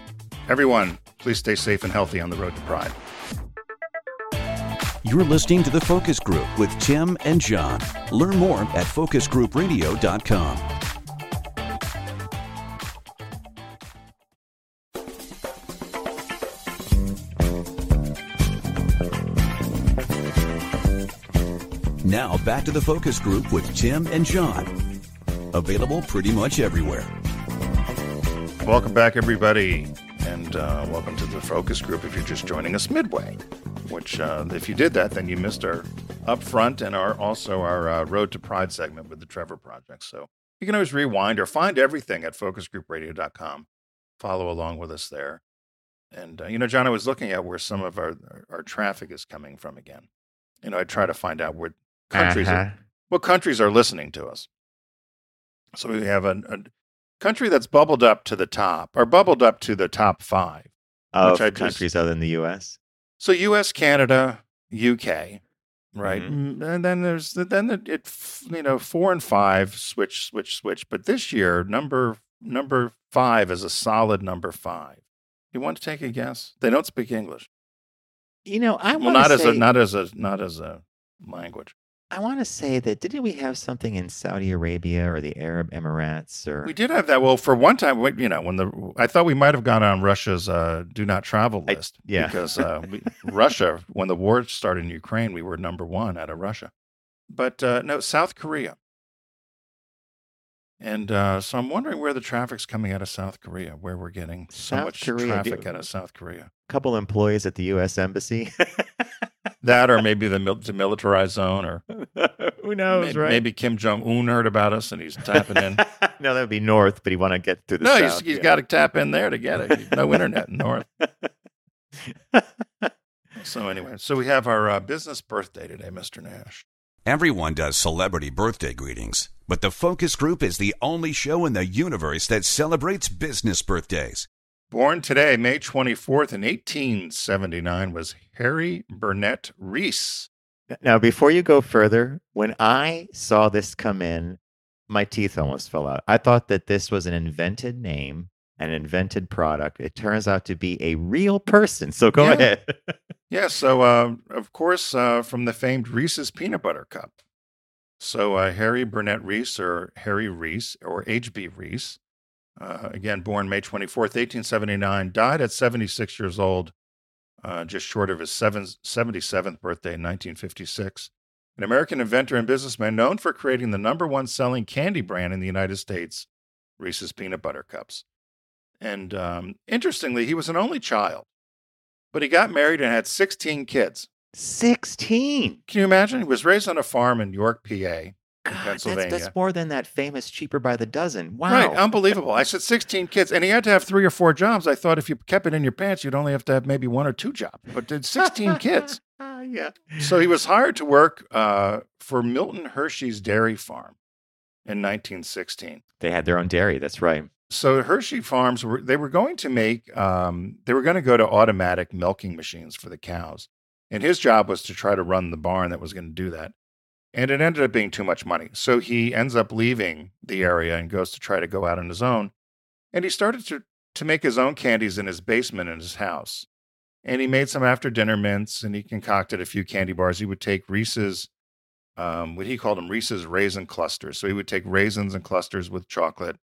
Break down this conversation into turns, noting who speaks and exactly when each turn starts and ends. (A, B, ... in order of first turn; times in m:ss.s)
0:00.5-0:03.0 A
0:05.0-0:10.6 B
0:22.0-0:24.7 B
0:25.5-0:27.1 B
0:28.6-0:43.7 A
0:44.2-0:45.4 A
0:46.1-0:50.1 A
0:50.6-0:54.5 A
0:52.1-0:52.8 C
0:55.8-1:00.7 A
1:01.1-1:02.8 C
1:01.2-1:01.8 A
1:03.2-1:05.4 A
1:05.9-1:15.0 A
1:06.0-1:06.3 C
1:15.5-1:17.5 A
1:18.4-1:19.6 C
1:19.0-1:21.7 A
1:22.1-1:26.7 C
1:26.6-1:36.7 A
1:31.7-1:32.8 C
1:37.3-1:38.8 A
1:40.8-1:46.5 A
1:44.5-1:45.8 C
1:46.7-1:49.3 C
1:49.6-1:51.8 A
1:51.9-1:53.4 C
1:52.9-1:55.8 A
1:55.3-1:58.5 C
1:57.8-2:00.8 A
2:01.0-2:01.3 C
2:02.0-2:02.9 C
2:03.4-2:06.6 A
2:07.0-2:14.3 B
2:14.7-2:20.3 A
2:20.7-2:33.0 C
2:32.2-2:32.5 A
2:33.3-2:37.1 A
2:38.0-2:42.0 A
2:42.6-2:46.7 A
2:47.4-2:56.3 A
2:56.8-2:58.0 A
2:58.8-3:01.3 A
3:02.1-3:04.1 A
3:04.3-3:05.6 C
3:05.7-3:09.3 A
3:08.4-3:11.8 C
3:11.5-3:19.0 A
3:18.2-3:20.1 C
3:20.0-3:24.0 A
3:24.6-3:25.8 A
3:26.0-3:27.3 C
3:27.5-3:36.5 A
3:37.1-3:42.3 A
3:42.9-3:46.5 A
3:47.0-3:51.3 A
3:52.0-3:56.4 A